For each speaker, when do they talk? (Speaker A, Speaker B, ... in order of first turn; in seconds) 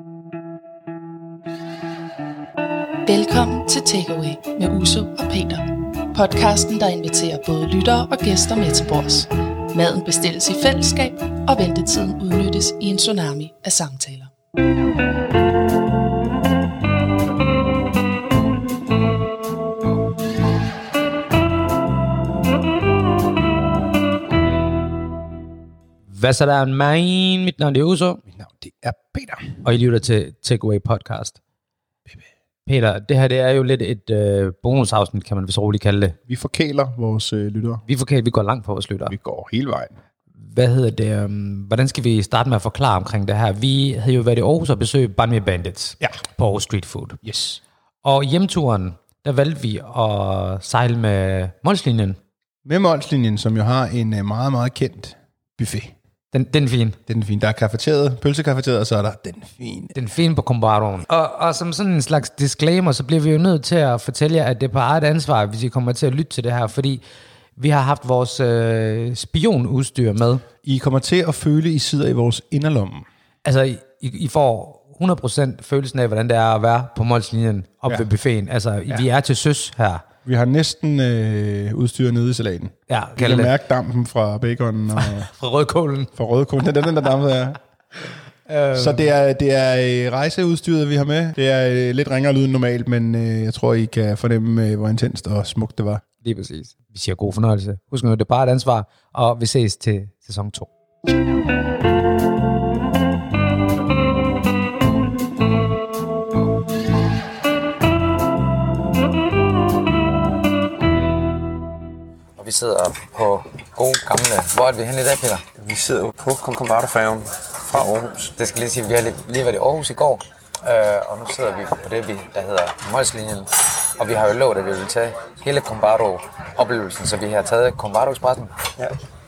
Speaker A: 3.0-14.3
Speaker B: 26.1-28.2, 29.6-31.4, 32.6-36.2, 37.9-39.1, 40.4-47.2, 48.0-52.2, 56.3-57.0, 59.9-67.0, 67.6-70.5, 73.4-80.1, 82.9-83.6, 84.9-86.1, 88.5-89.1, 96.2-100.7
Speaker C: 28.3-29.6, 36.3-37.8, 39.1-39.9, 47.2-47.6, 52.6-55.9, 57.1-59.9, 70.6-73.1, 80.2-85.3, 86.2-87.6, 88.7-96.0
Speaker D: 112.4-115.4, 118.4-128.6
Speaker E: 115.6-118.3